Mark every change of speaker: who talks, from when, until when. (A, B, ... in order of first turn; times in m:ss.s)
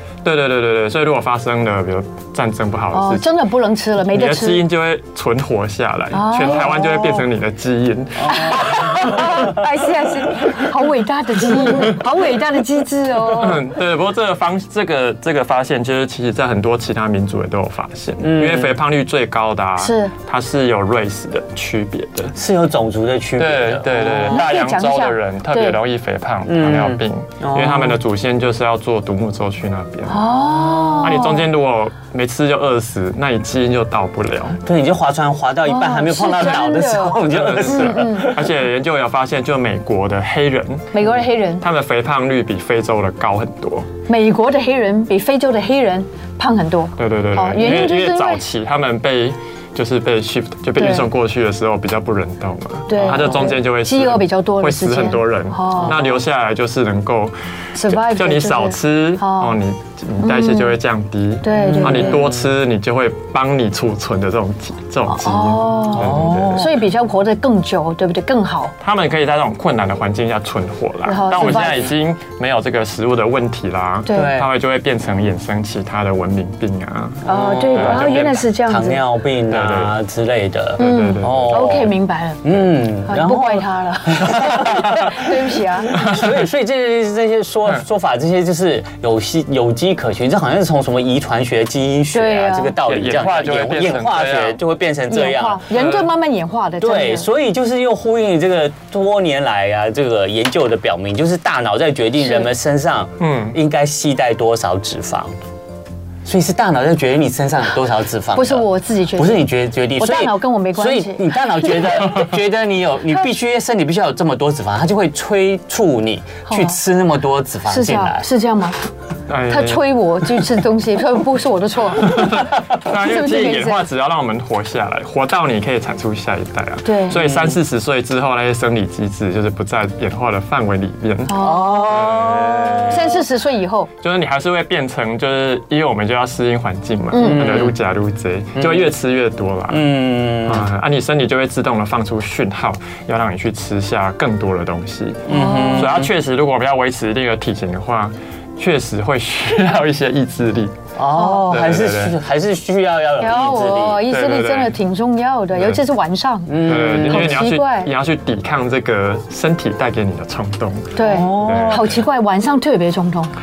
0:00.2-0:03.3 A
0:02.9-0:04.6 B
0:04.1-0:09.1 A
0:06.1-0:07.2 B
0:06.5-0:06.8 C
0:08.2-0:09.6 C
0:08.3-0:13.6 B
0:13.4-0:22.3 A
0:18.2-0:18.8 C
0:19.8-0:20.1 B
0:22.3-0:24.4 C
0:23.4-0:30.3 A
0:24.3-0:25.8 B
0:26.4-0:28.0 C
0:30.1-0:31.4 B
0:30.9-0:34.6 A
0:34.6-0:38.5 C
0:35.6-0:38.3 B
0:37.2-0:41.0 A
0:40.9-0:41.6 B
0:41.6-0:43.9 A
0:44.1-0:48.4 B
0:47.0-0:57.3 A
0:50.8-0:51.1 B
0:52.9-0:56.1 B
0:57.7-0:59.5 B
0:57.9-1:06.7 A
1:00.2-1:00.8 B
1:01.4-1:02.2 B
1:01.6-1:02.4 C
1:05.1-1:08.7 B
1:06.0-1:06.7 C
1:08.8-1:18.4 A
1:11.0-1:11.9 B
1:14.0-1:14.3 B
1:14.1-1:14.5 C
1:17.2-1:21.9 C
1:17.2-1:19.0 B
1:19.5-1:19.9 A
1:20.8-1:21.6 A
1:20.8-1:22.4 B
1:22.4-1:25.2 C
1:23.0-1:26.0 B
1:25.9-1:35.7 C
1:26.0-1:26.3 A
1:32.1-1:32.7 B
1:32.8-1:34.6 A
1:35.1-1:37.3 B
1:35.7-1:36.1 A
1:36.8-1:45.3 C
1:42.2-1:42.5 B
1:43.2-1:43.6 A
1:46.2-1:58.2 C
1:48.3-1:51.9 B
1:56.5-1:56.8 B
1:57.7-1:58.8 B
1:59.3-1:59.8 A
1:59.5-2:03.8 B
2:02.0-2:13.2 A
2:06.8-2:07.2 B
2:07.2-2:07.6 C
2:11.3-2:11.9 B
2:11.4-2:13.2 C
2:12.9-2:13.9 B
2:14.0-2:19.8 A
2:17.1-2:17.6 B
2:17.2-2:17.8 C
2:18.6-2:18.9 C
2:19.7-2:20.7 C
2:20.4-2:30.8 A
2:25.3-2:26.1 C
2:25.3-2:26.0 B
2:31.0-2:34.0 C
2:31.1-2:31.5 B
2:31.5-2:32.2 A
2:33.2-2:37.9 B
2:34.1-2:34.8 A
2:36.5-2:37.4 C
2:36.6-2:42.0 A
2:40.9-2:43.3 B
2:41.0-2:41.9 C